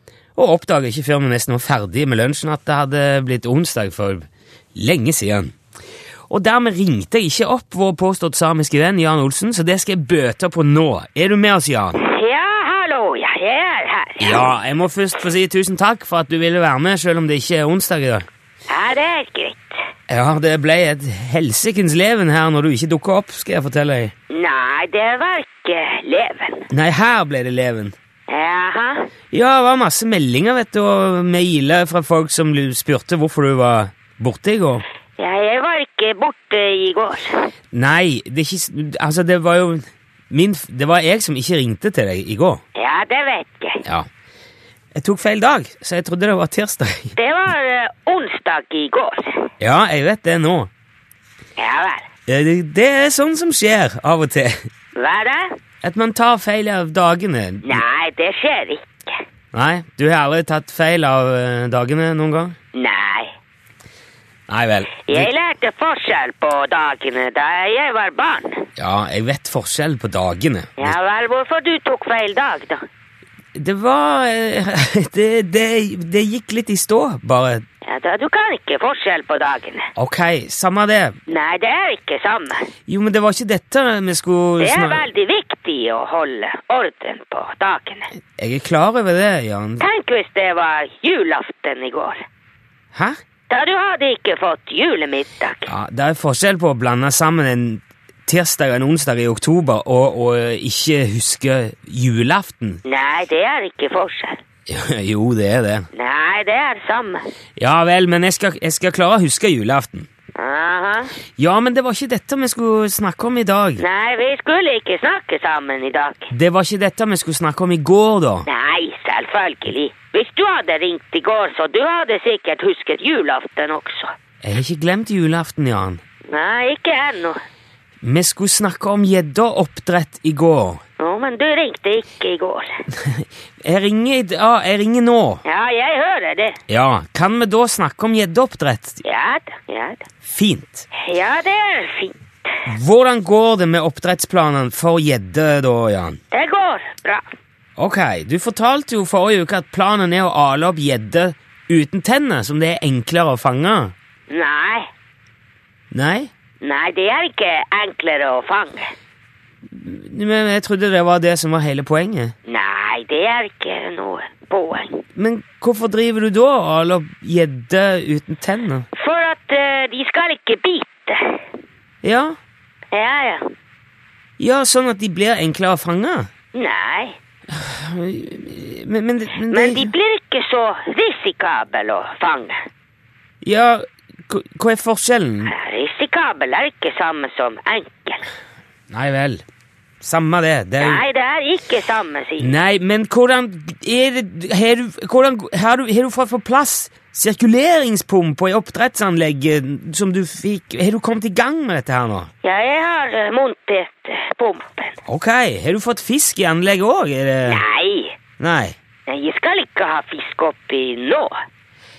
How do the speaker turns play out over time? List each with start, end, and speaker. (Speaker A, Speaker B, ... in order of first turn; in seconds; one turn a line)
Speaker A: 0.3-5.5
Speaker A: 6.3-12.0
Speaker B: 12.0-14.5
Speaker A: 14.2-18.3
Speaker B: 18.7-19.8
Speaker A: 20.1-24.1
Speaker B: 24.3-26.7
Speaker A: 26.7-27.9
Speaker B: 28.3-29.1
Speaker A: 29.3-34.8
Speaker B: 35.2-37.5
Speaker A: 37.7-42.6
Speaker B: 42.8-43.8
Speaker A: 45.0-47.1
Speaker B: 47.2-49.5
Speaker A: 49.6-50.7
Speaker B: 51.6-52.1
Speaker A: 52.3-54.6
Speaker B: 55.0-55.5
Speaker A: 55.8-57.8
Speaker B: 57.6-59.1
Speaker A: 59.5-62.6
Speaker B: 62.7-63.3
Speaker A: 64.5-65.3
Speaker B: 65.1-68.7
Speaker A: 68.8-71.0
Speaker B: 70.8-72.8
Speaker A: 73.5-77.6
Speaker B: 77.8-79.9
Speaker A: 80.0-81.2
Speaker B: 81.3-82.7
Speaker A: 82.9-85.1
Speaker B: 84.6-88.1
Speaker A: 88.4-89.8
Speaker B: 89.8-92.2
Speaker B: 93.5-95.7
Speaker A: 95.7-102.8
Speaker B: 102.8-104.4
Speaker A: 104.7-105.9
Speaker B: 105.9-107.2
Speaker A: 107.6-110.1
Speaker B: 110.4-111.1
Speaker A: 111.4-113.8
Speaker B: 113.8-116.3
Speaker A: 116.3-118.5
Speaker B: 118.5-124.1
Speaker A: 124.4-126.0
Speaker B: 126.3-127.4
Speaker A: 128.0-130.8
Speaker B: 131.0-132.8
Speaker A: 133.0-135.4
Speaker B: 135.4-136.6
Speaker A: 136.7-139.0
Speaker B: 139.0-140.0
Speaker A: 140.2-140.9
Speaker B: 140.9-142.2
Speaker A: 142.7-146.2
Speaker B: 146.3-147.3
Speaker A: 147.8-153.9
Speaker B: 154.3-154.9
Speaker A: 155.9-156.3
Speaker B: 156.6-158.9
Speaker A: 159.7-162.3
Speaker B: 162.5-165.0
Speaker A: 165.2-168.9
Speaker B: 168.9-171.4
Speaker A: 172.0-172.4
Speaker B: 172.9-173.4
Speaker A: 174.4-176.3
Speaker B: 176.5-177.2
Speaker A: 177.5-179.9
Speaker B: 179.4-182.6
Speaker A: 183.4-185.5
Speaker B: 185.5-188.2
Speaker A: 188.9-189.4
Speaker A: 190.0-191.0
Speaker B: 190.8-192.5
Speaker A: 192.4-202.3
Speaker B: 202.4-205.0
Speaker A: 205.1-207.6
Speaker B: 207.5-208.2
Speaker A: 208.4-208.8
Speaker B: 209.1-211.3